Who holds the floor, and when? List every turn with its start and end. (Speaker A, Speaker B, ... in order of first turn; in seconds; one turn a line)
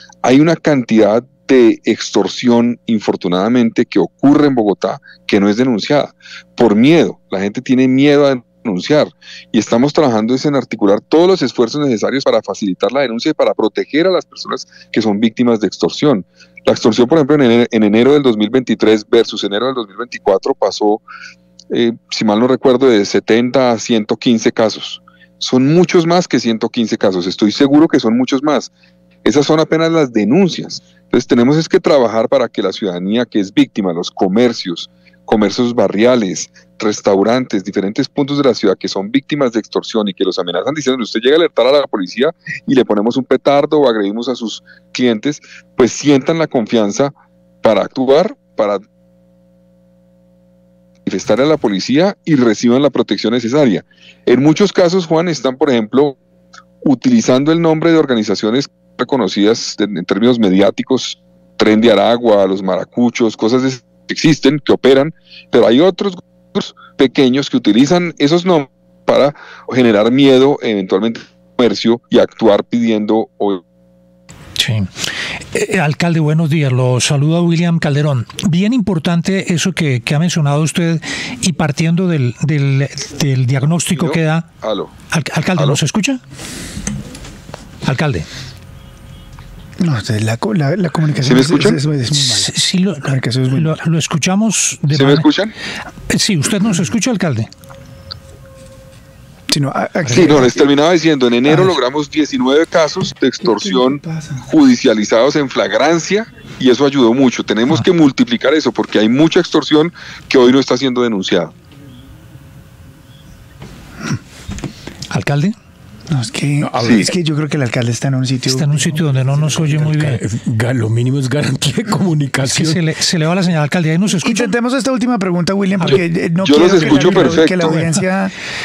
Speaker A: 0.2-21.0
Speaker A: 21.7-28.7
Speaker A: 29.2-48.8
Speaker A: 51.1-56.2
Speaker A: 56.8-73.6
Speaker B: 74.6-74.9
Speaker B: 75.5-84.5
Speaker A: 83.9-84.9
Speaker B: 85.1-86.2
Speaker A: 85.6-85.8
Speaker B: 87.8-88.3
Speaker C: 89.8-93.8
Speaker A: 91.2-91.8
Speaker B: 92.1-95.3
Speaker A: 94.9-95.5
Speaker B: 96.1-97.5
Speaker C: 99.5-100.6
Speaker B: 100.1-100.4
Speaker A: 100.1-111.5
Speaker C: 101.5-101.8
Speaker C: 103.4-104.4
Speaker B: 115.1-115.5
Speaker C: 116.1-119.0
Speaker D: 116.6-117.1
Speaker A: 116.8-117.1
Speaker B: 118.5-120.2
Speaker D: 119.3-122.8
Speaker B: 122.4-124.5
Speaker C: 124.2-128.3
Speaker A: 125.9-127.8